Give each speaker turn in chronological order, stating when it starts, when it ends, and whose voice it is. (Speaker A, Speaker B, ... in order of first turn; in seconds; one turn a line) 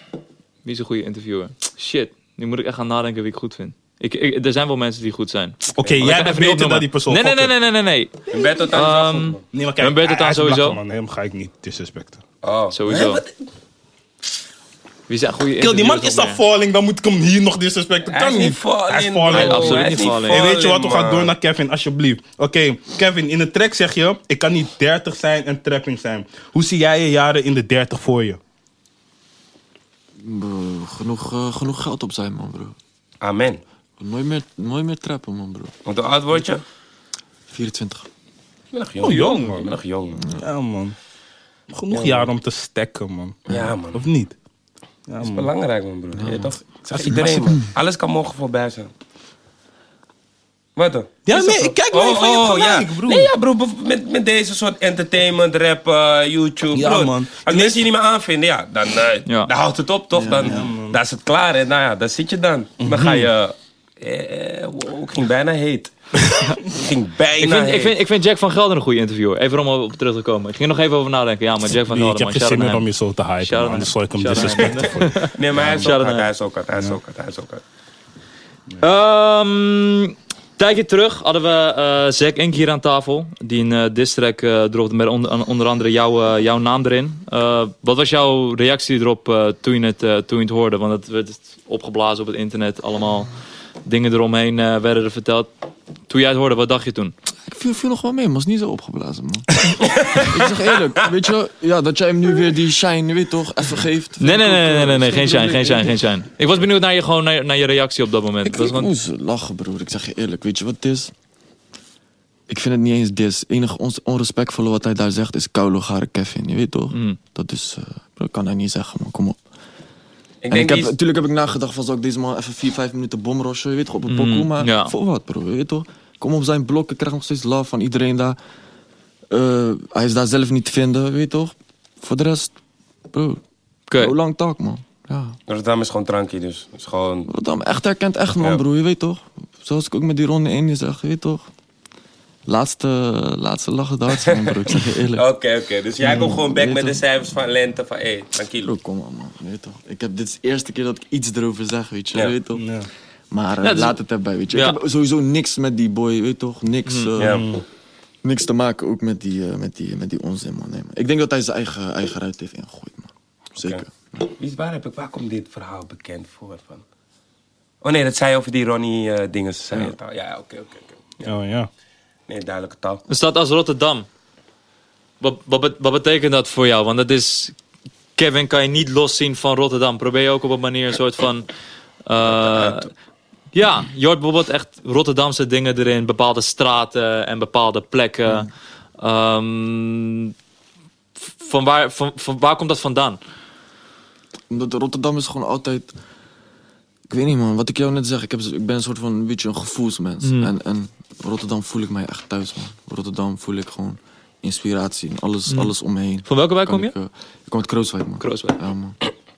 Speaker A: 0.6-10.8
Speaker B: 5.7-7.5
Speaker C: 8.3-9.4
Speaker B: 9.5-12.2
Speaker C: 12.4-13.3
Speaker A: 12.7-13.2
Speaker A: 15.1-16.4
Speaker B: 15.6-28.4
Speaker C: 18.0-21.3
Speaker A: 19.3-20.5
Speaker D: 30.2-32.8
Speaker C: 33.2-33.6
Speaker D: 34.0-35.7
Speaker C: 35.9-36.6
Speaker D: 37.5-38.1
Speaker C: 38.7-40.3
Speaker B: 39.0-39.8
Speaker B: 40.3-41.0
Speaker B: 41.7-44.3
Speaker C: 41.9-42.3
Speaker C: 43.5-44.0
Speaker B: 45.1-45.5
Speaker C: 45.2-48.9
Speaker D: 46.1-47.7
Speaker B: 46.9-47.3
Speaker C: 50.8-65.9
Speaker B: 51.2-53.3
Speaker B: 56.7-57.9
Speaker D: 60.1-60.7
Speaker B: 60.4-61.0
Speaker B: 62.8-63.3
Speaker C: 66.6-68.0
Speaker A: 67.4-72.8
Speaker B: 71.9-75.9
Speaker A: 73.4-76.3
Speaker C: 75.3-77.6
Speaker A: 78.8-93.3
Speaker A: 93.8-95.5
Speaker A: 96.1-97.1
Speaker D: 97.4-106.0
Speaker C: 99.8-100.5
Speaker A: 104.2-108.9
Speaker D: 108.4-111.1
Speaker D: 112.5-119.4
Speaker A: 116.9-117.2
Speaker C: 120.4-120.9
Speaker D: 120.5-128.4
Speaker A: 124.1-124.9
Speaker D: 129.3-132.5
Speaker D: 133.1-133.4
Speaker A: 133.9-134.2
Speaker D: 133.9-135.4
Speaker C: 135.5-137.3
Speaker D: 137.3-141.5
Speaker D: 142.5-145.2
Speaker C: 144.1-148.7
Speaker D: 146.0-147.0
Speaker D: 148.6-152.6
Speaker B: 152.5-152.9
Speaker D: 153.3-157.5
Speaker A: 153.6-153.9
Speaker A: 154.5-154.8
Speaker A: 156.8-157.1
Speaker C: 157.2-157.5
Speaker B: 157.2-157.6
Speaker D: 158.2-164.3
Speaker C: 163.6-163.8
Speaker C: 164.3-166.8
Speaker C: 167.8-171.3
Speaker B: 171.2-171.7
Speaker C: 172.3-173.0
Speaker A: 173.1-174.1
Speaker A: 175.2-177.5
Speaker A: 178.2-181.5
Speaker A: 182.1-182.9
Speaker C: 182.2-182.9
Speaker A: 183.5-190.3
Speaker A: 191.3-193.2
Speaker D: 194.5-195.9
Speaker D: 197.1-209.0
Speaker A: 200.2-200.5
Speaker A: 206.2-206.9
Speaker A: 208.2-208.6